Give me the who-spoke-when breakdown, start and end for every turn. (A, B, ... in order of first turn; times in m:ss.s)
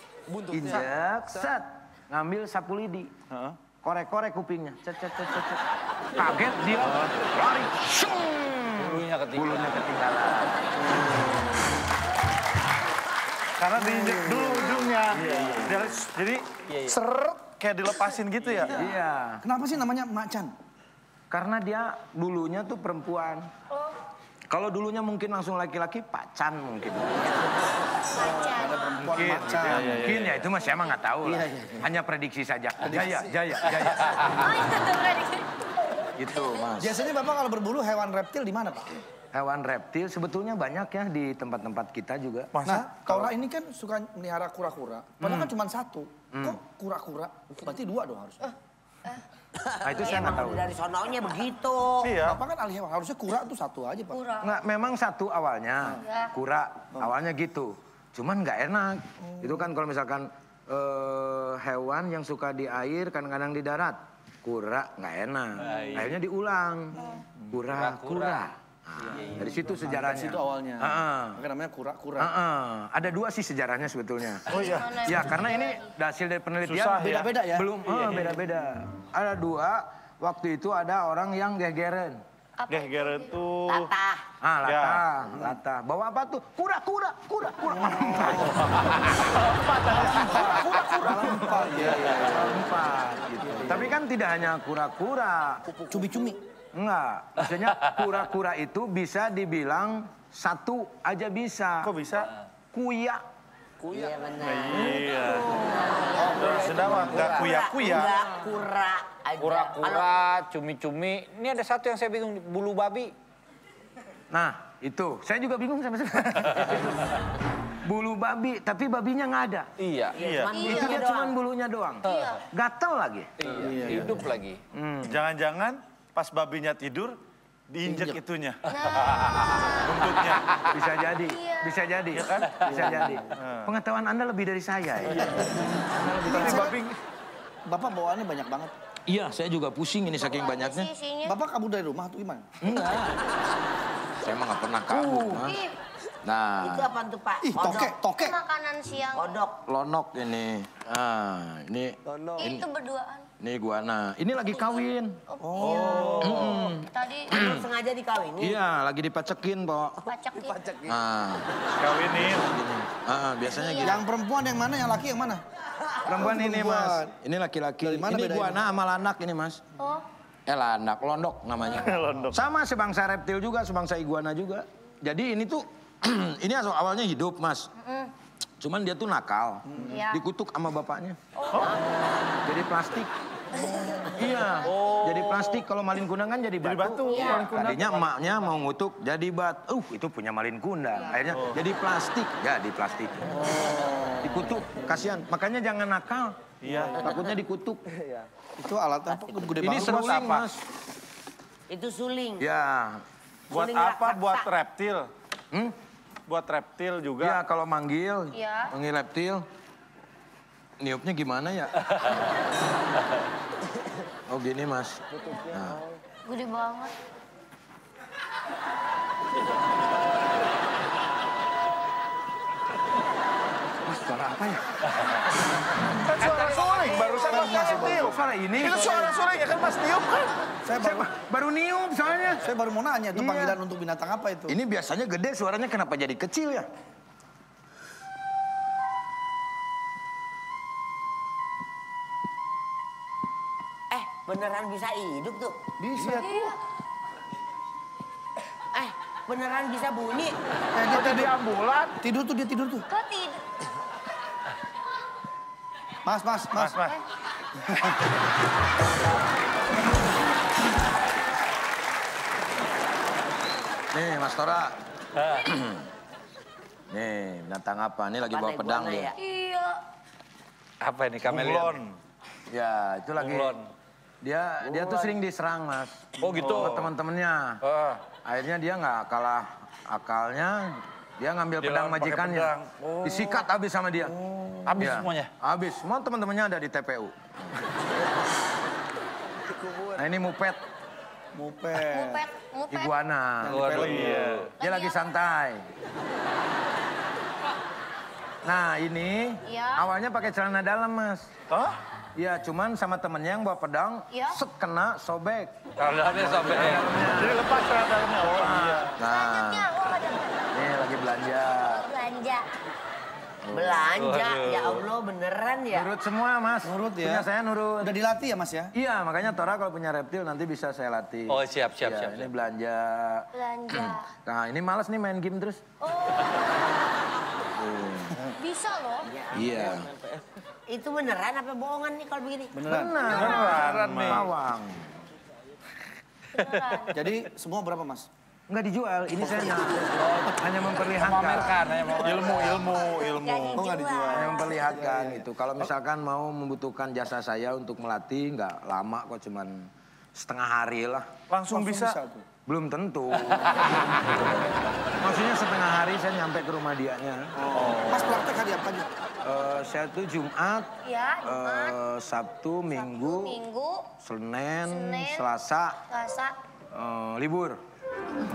0:00.4-0:03.1 A
0:03.3-0:03.6 B
0:03.8-0:10.8 A
0:08.7-0:09.8 C
0:10.9-0:11.4 D
0:13.6-0:18.8 B
0:15.1-0:15.8 A
0:16.7-0:17.0 C
0:18.7-0:19.4 A
0:19.4-0:20.5 D
0:21.3-0:23.5 A
0:24.5-0:27.5 A
0:28.1-0:30.1 D
0:28.1-0:29.1 E
0:29.0-0:34.5 A
0:29.5-0:30.3 B
0:31.2-0:31.6 D
0:32.8-0:33.4 D
0:34.3-0:35.5 E
0:36.1-0:37.0 A
0:36.8-0:39.0 D
0:39.3-0:42.5 A
0:42.5-0:43.3 B
0:42.6-0:48.5 D
0:45.2-0:45.5 A
0:46.3-0:46.6 A
0:49.6-0:52.1 F
0:49.8-0:50.7 A
0:52.0-0:52.4 B
0:52.2-0:54.2 D
0:54.1-0:54.6 E
0:54.4-1:07.0 A
0:56.0-0:56.3 E
0:59.2-0:59.7 D
1:05.6-1:06.1 C
1:07.0-1:07.2 D
1:07.5-1:11.4 A
1:07.7-1:08.4 C
1:09.1-1:09.6 C
1:09.4-1:12.3 D
1:12.2-1:22.2 A
1:14.5-1:15.9 E
1:14.5-1:15.0 B
1:16.6-1:17.3 B
1:17.1-1:17.7 D
1:22.6-1:23.3 E
1:22.7-1:23.9 B
1:23.6-1:24.2 F
1:24.4-1:28.7 A
1:24.6-1:25.0 B
1:27.8-1:28.6 D
1:29.1-1:32.1 B
1:29.9-1:32.6 D
1:32.3-1:35.6 A
1:33.6-1:33.9 D
1:35.9-1:36.4 D
1:36.7-1:41.9 A
1:41.8-1:42.3 B
1:42.7-1:43.2 A
1:43.8-1:50.1 F
1:44.4-1:48.2 B
1:46.1-1:47.6 C
1:49.4-1:53.1 C
1:54.3-1:57.2 A
1:57.8-1:59.7 A
1:59.8-2:00.3 C
2:00.1-2:01.3 F
2:00.2-2:00.5 B
2:00.5-2:00.9 E
2:00.6-2:03.3 A
2:02.1-2:02.4 E
2:03.4-2:04.6 C
2:03.5-2:04.3 D
2:04.7-2:05.2 A
2:05.1-2:07.2 B
2:07.7-2:08.6 B
2:07.8-2:08.2 D
2:08.6-2:10.0 E
2:09.9-2:10.4 B
2:09.9-2:16.8 A
2:11.1-2:11.8 E
2:12.1-2:13.7 B
2:12.6-2:13.2 D
2:15.4-2:15.6 D
2:16.2-2:16.8 D
2:16.3-2:17.0 B
2:17.6-2:18.7 D
2:19.0-2:20.9 A
2:20.2-2:21.4 E
2:21.2-2:22.5 D
2:22.6-2:23.3 A
2:24.2-2:25.6 A
2:25.0-2:25.8 E
2:26.2-2:26.9 A
2:26.6-2:27.9 F
2:27.4-2:28.4 D
2:28.0-2:29.4 E
2:29.1-2:29.6 F
2:29.6-2:32.7 A
2:32.4-2:33.3 E
2:33.4-2:35.2 A
2:34.5-2:37.3 E
2:35.4-2:36.3 D
2:35.6-2:36.7 B
2:36.1-2:37.6 A
2:37.3-2:38.6 F
2:38.4-2:40.1 A
2:40.0-2:40.7 E
2:40.7-2:41.5 A
2:41.8-2:42.5 B
2:42.3-2:44.0 A
2:43.5-2:44.0 E
2:43.7-2:45.4 D
2:46.0-2:49.6 A
2:46.1-2:47.1 D
2:47.8-2:48.6 D
2:49.8-2:50.1 E
2:50.4-2:57.7 A
2:51.8-2:52.4 B
2:57.8-2:58.1 E
2:58.6-3:01.2 A
2:59.7-3:00.0 D
2:59.9-3:00.2 E
3:01.5-3:01.8 B
3:01.6-3:02.0 F
3:02.4-3:03.1 A
3:03.9-3:13.4 A
3:04.6-3:05.6 C
3:06.6-3:08.2 B
3:11.1-3:11.6 B
3:13.5-3:14.2 B
3:14.2-3:17.8 A
3:16.6-3:17.0 B
3:18.6-3:20.3 D
3:19.1-3:19.8 F
3:19.6-3:20.6 A
3:19.9-3:20.4 B
3:21.7-3:22.5 F
3:22.4-3:23.0 A
3:23.5-3:24.5 F
3:23.5-3:25.1 B
3:26.3-3:27.4 B
3:27.2-3:29.4 A
3:28.3-3:28.7 E
3:30.8-3:31.9 A
3:34.3-3:35.8 A
3:36.2-3:36.9 E
3:43.8-3:44.6 A
3:46.0-3:50.5 B
3:46.2-3:47.6 C
3:47.0-3:48.2 D
3:47.7-3:49.1 A
3:50.6-3:51.1 D
3:50.7-3:52.5 A
3:52.4-3:54.6 D
3:53.1-3:53.6 A
3:54.5-3:56.7 A
4:03.9-4:05.6 F
4:05.8-4:06.5 D
4:06.1-4:06.5 E
4:08.7-4:10.4 F
4:10.7-4:11.4 D
4:10.8-4:12.0 B
4:11.9-4:12.9 D
4:12.9-4:13.4 E
4:16.0-4:16.9 D
4:16.6-4:17.0 B
4:23.9-4:24.8 A
4:25.2-4:25.4 C
4:25.4-4:25.9 A
4:26.9-4:29.1 A
4:28.3-4:29.2 F
4:29.2-4:29.8 E
4:30.8-4:31.8 C
4:31.2-4:32.0 B
4:32.5-4:33.6 A
4:33.2-4:33.7 C
4:34.2-4:37.6 A
4:34.6-4:35.1 C
4:36.2-4:36.8 C
4:36.4-4:36.8 B
4:37.6-4:38.0 C
4:38.2-4:44.2 A
4:41.6-4:43.4 C
4:44.0-4:44.7 D
4:44.6-4:45.3 C
4:44.8-4:47.7 A
4:49.9-4:50.6 A
4:51.3-4:52.3 D
4:51.8-4:52.9 E
4:52.7-4:55.7 A
4:53.4-4:54.5 D
4:53.4-4:54.5 C
4:54.5-4:55.0 E
4:58.4-5:01.3 A
4:59.4-4:59.8 E
5:01.5-5:01.8 B
5:02.1-5:07.4 A
5:04.1-5:04.4 E
5:05.8-5:07.0 C
5:07.1-5:09.0 B
5:08.3-5:09.7 A
5:09.0-5:10.4 E
5:10.5-5:11.9 A
5:11.5-5:12.5 E
5:13.4-5:13.9 A
5:13.5-5:15.9 F
5:13.9-5:14.8 C
5:15.7-5:17.9 A
5:16.6-5:17.3 D
5:17.8-5:18.7 D
5:18.7-5:25.6 A
5:21.3-5:22.3 C
5:23.3-5:24.0 E
5:25.8-5:26.9 E
5:27.5-5:28.2 A
5:28.3-5:29.1 E
5:29.0-5:29.8 F
5:29.3-5:29.9 A
5:30.7-5:32.5 F
5:32.5-5:33.2 D
5:32.6-5:35.0 A
5:33.0-5:34.2 B
5:33.5-5:34.2 C
5:36.3-5:37.0 E
5:36.4-5:36.8 C
5:36.9-5:38.1 D
5:38.5-5:41.6 A
5:40.0-5:40.3 C
5:41.0-5:42.6 C
5:41.9-5:43.7 B
5:42.2-5:44.4 F
5:43.5-5:45.3 D
5:44.1-5:51.1 A
5:51.3-5:52.0 B
5:51.4-5:52.2 D
5:52.4-5:54.3 A
5:55.0-5:57.3 A
5:57.4-5:58.9 D
5:57.7-5:58.2 B
5:59.2-6:03.4 A
6:00.8-6:01.8 E
6:02.7-6:03.9 E
6:04.0-6:05.8 A
6:04.6-6:05.3 E
6:05.9-6:06.4 E
6:06.7-6:07.6 A